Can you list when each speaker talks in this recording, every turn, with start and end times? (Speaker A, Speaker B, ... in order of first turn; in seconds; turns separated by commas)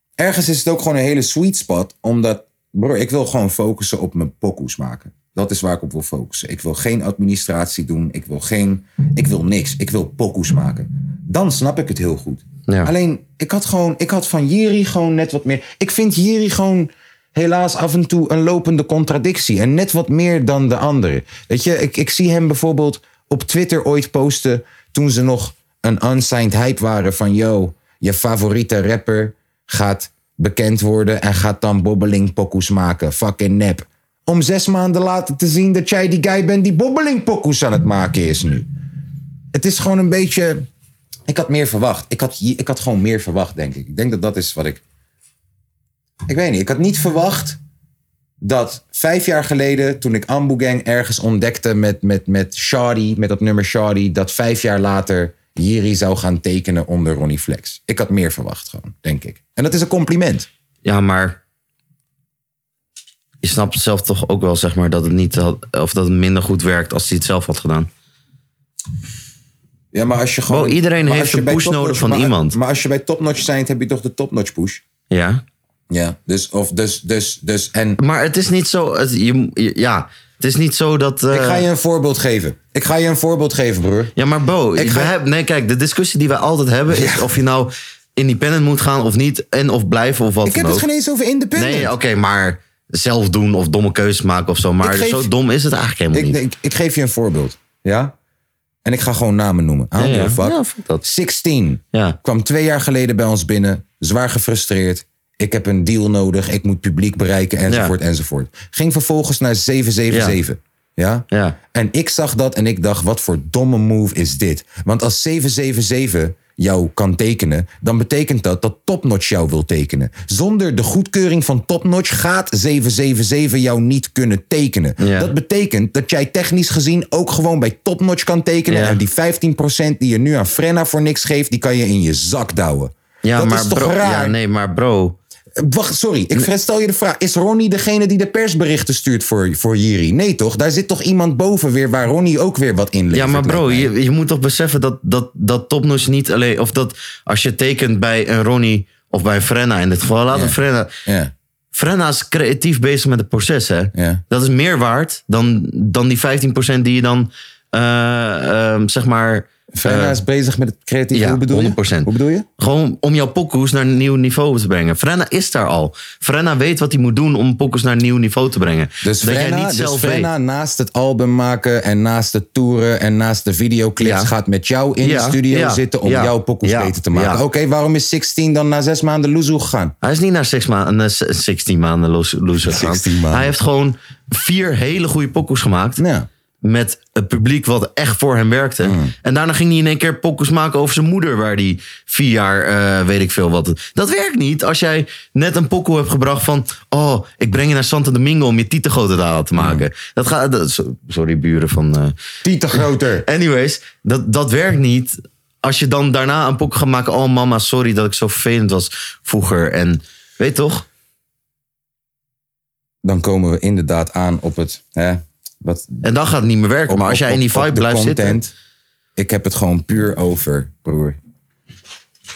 Speaker A: 0.2-38.7, Speaker A: 39.5-40.7, Speaker A: 41.3-44.8, Speaker A: 46.3-47.6, Speaker A: 48.4-60.5, Speaker B: 60.8-61.4, Speaker B: 63.4-67.9, Speaker A: 69.9-74.8, Speaker B: 70.5-72.6, Speaker B: 75.1-75.4, Speaker A: 75.9-78.0, Speaker B: 78.0-81.7, Speaker A: 81.3-84.1, Speaker B: 84.2-90.8, Speaker A: 84.8-85.1, Speaker A: 86.9-87.3, Speaker A: 90.4-91.9, Speaker B: 91.5-96.4, Speaker A: 94.8-95.3, Speaker A: 96.1-98.1, Speaker A: 98.8-134.3, Speaker B: 100.0-101.0, Speaker B: 107.7-107.9, Speaker B: 110.1-110.4, Speaker B: 111.3-111.6, Speaker B: 125.0-125.3, Speaker B: 128.7-129.0, Speaker B: 133.2-135.2, Speaker A: 135.6-143.9, Speaker B: 143.1-150.9, Speaker A: 150.3-151.3, Speaker B: 151.7-160.2, Speaker A: 153.9-154.2, Speaker A: 159.8-162.4, Speaker B: 161.1-170.3, Speaker A: 169.0-179.9, Speaker B: 174.0-174.3, Speaker B: 175.0-177.4, Speaker B: 180.0-186.0, Speaker A: 182.6-183.5, Speaker A: 186.0-186.3, Speaker B: 186.6-202.1, Speaker A: 188.8-189.1, Speaker A: 199.6-199.8, Speaker A: 202.4-203.3, Speaker B: 203.2-210.8, Speaker A: 213.0-216.0, Speaker B: 216.0-218.4, Speaker A: 216.9-218.5, Speaker A: 219.2-221.2